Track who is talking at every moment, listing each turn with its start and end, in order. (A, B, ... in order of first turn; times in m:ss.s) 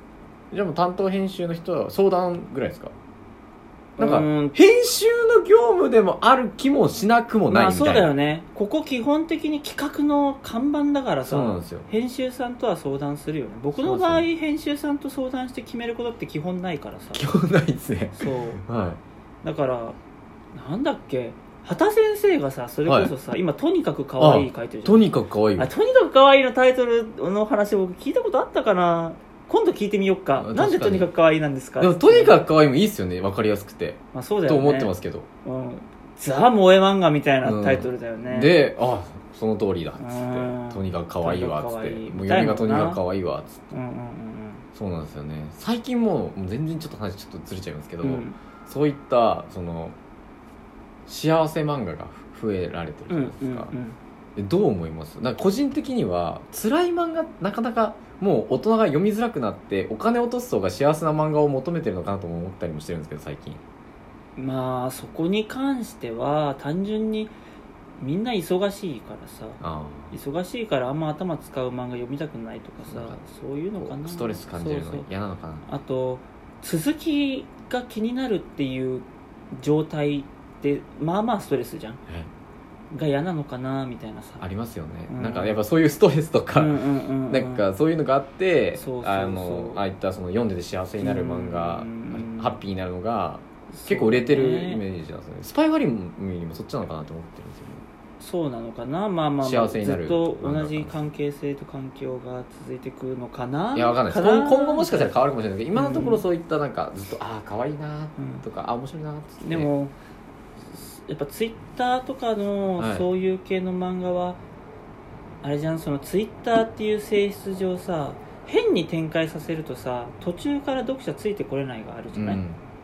0:00.5-0:02.9 A
0:04.0-0:04.6 B
0:04.0-0:08.1 A
0:07.5-0:17.3 B
0:11.2-0:11.9 A
0:13.8-0:14.2 A
0:17.1-0:19.0 A
0:18.1-0:18.6 B
0:19.4-0:20.0 B
0:20.5-0:25.0 B
0:22.8-0:23.1 A
0:24.2-0:25.7 A
0:25.6-0:32.4 B
0:30.4-0:31.1 A
0:31.8-0:35.2 A
0:34.1-0:34.9 B
0:35.4-0:38.5 B
0:37.4-0:43.7 A
0:40.0-0:43.0 B
0:43.7-0:44.6 B
0:44.7-0:50.0 A
0:48.0-0:48.4 B
0:51.1-0:53.7 A
0:53.1-0:54.0 B
0:54.4-1:03.6 A
1:04.4-1:07.3 B
1:08.0-1:15.1 B
1:09.6-1:10.2 A
1:12.8-1:13.2 A
1:13.8-1:15.7 A
1:15.6-1:22.0 B
1:22.9-1:24.4 B
1:24.4-1:37.8 A
1:25.1-1:25.6 B
1:26.5-1:27.6 B
1:28.7-1:29.8 B
1:31.0-1:32.6 B
1:33.7-1:34.8 B
1:38.2-1:45.1 B
1:39.4-1:40.9 A
1:43.7-1:49.7 A
1:45.7-1:46.2 B
1:48.2-1:48.4 B
1:49.4-1:49.9 B
1:50.7-1:54.4 B
1:52.8-1:53.1 A
1:55.4-2:02.4 B
2:02.1-2:02.6 A